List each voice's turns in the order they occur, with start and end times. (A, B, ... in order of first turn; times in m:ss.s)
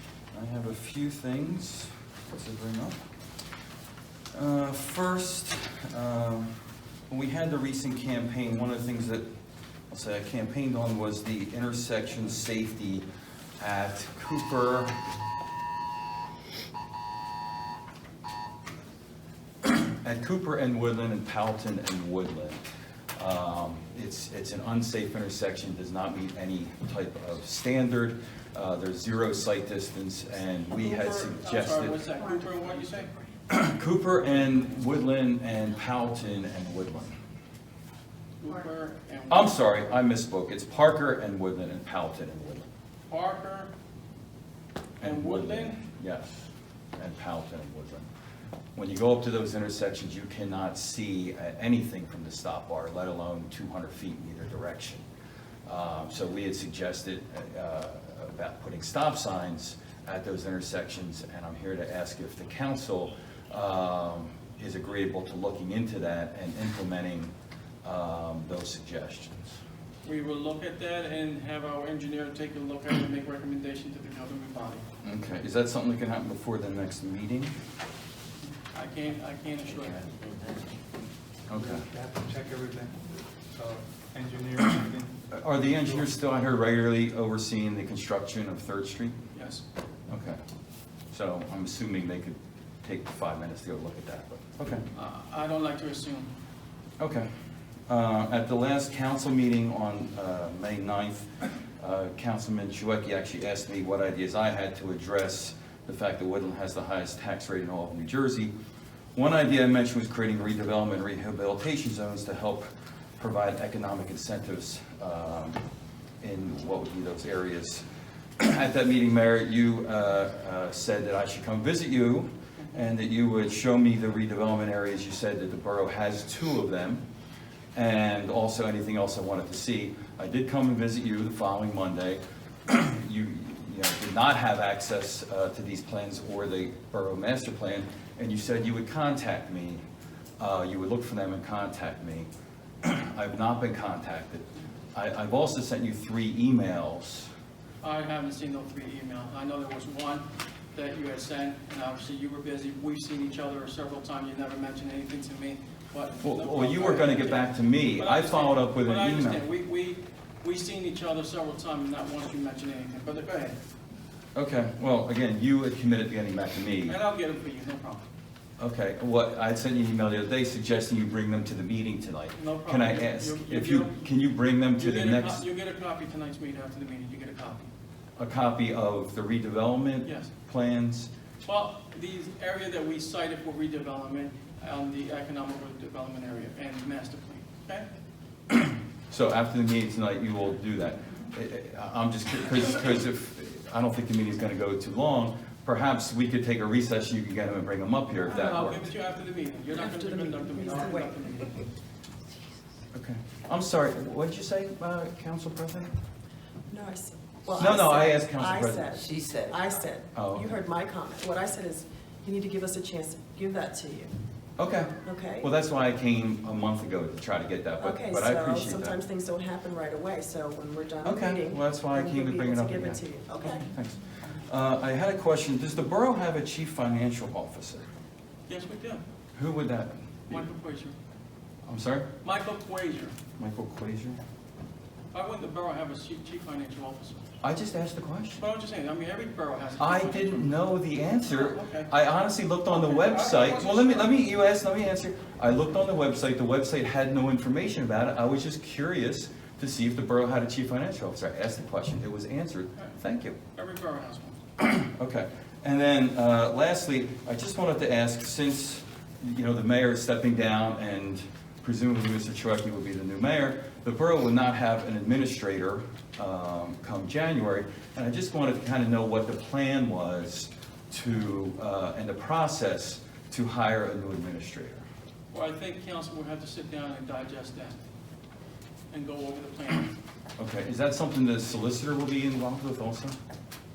0:00.3-0:03.0 A
0:04.3-0:06.6 A
0:07.1-0:09.2 A
0:09.9-0:13.0 A
0:13.6-0:15.0 A
0:19.6-0:32.0 A
0:30.8-0:33.1 B
0:33.5-0:37.2 A
0:38.4-0:39.5 B
0:39.3-0:42.7 A
0:43.1-0:43.7 B
0:45.0-0:48.1 A
0:45.0-0:45.8 B
0:48.8-0:55.0 A
0:55.7-1:07.3 A
1:07.8-1:09.6 A
1:10.0-1:14.8 B
1:15.0-1:17.6 A
1:18.7-1:20.3 B
1:21.5-1:21.8 A
1:21.5-1:25.1 C
1:25.3-1:29.2 A
1:25.7-1:26.1 C
1:29.3-1:29.6 B
1:30.1-1:30.4 A
1:31.1-1:34.8 A
1:34.9-1:36.3 B
1:37.0-1:37.3 A
1:37.9-1:48.5 A
1:49.2-1:55.6 A
1:56.2-1:57.8 A
1:58.4-2:07.0 A
2:07.8-2:19.8 A
2:20.4-2:22.3 A
2:22.8-2:27.3 A
2:27.8-2:43.6 B
2:36.2-2:39.4 A
2:44.4-2:47.0 A
2:46.9-2:48.0 B
2:48.6-2:55.4 A
2:52.4-2:54.1 B
2:54.8-2:57.7 B
2:58.2-3:01.1 A
3:00.0-3:00.3 B
3:01.4-3:07.9 B
3:08.5-3:18.8 A
3:18.3-3:21.6 B
3:19.7-3:21.2 D
3:22.9-3:25.9 A
3:26.7-3:34.1 D
3:27.6-3:29.0 A
3:30.2-3:30.5 A
3:34.6-3:39.0 A
3:35.0-3:35.5 D
3:37.8-3:43.7 D
3:41.0-3:47.9 A
3:48.5-3:49.0 B
3:49.4-3:50.4 A
3:50.3-3:51.0 B
3:51.7-3:52.1 A
3:52.2-3:53.2 B
3:53.4-3:54.2 A
3:55.1-3:57.3 B
3:57.4-3:58.4 A
3:58.4-4:00.6 B
3:59.8-4:13.4 A
4:01.3-4:01.9 B
4:02.7-4:04.2 B
4:13.5-4:14.4 B
4:14.6-4:34.8 A
4:35.3-4:37.8 B
4:38.9-4:39.9 B
4:40.4-4:43.2 A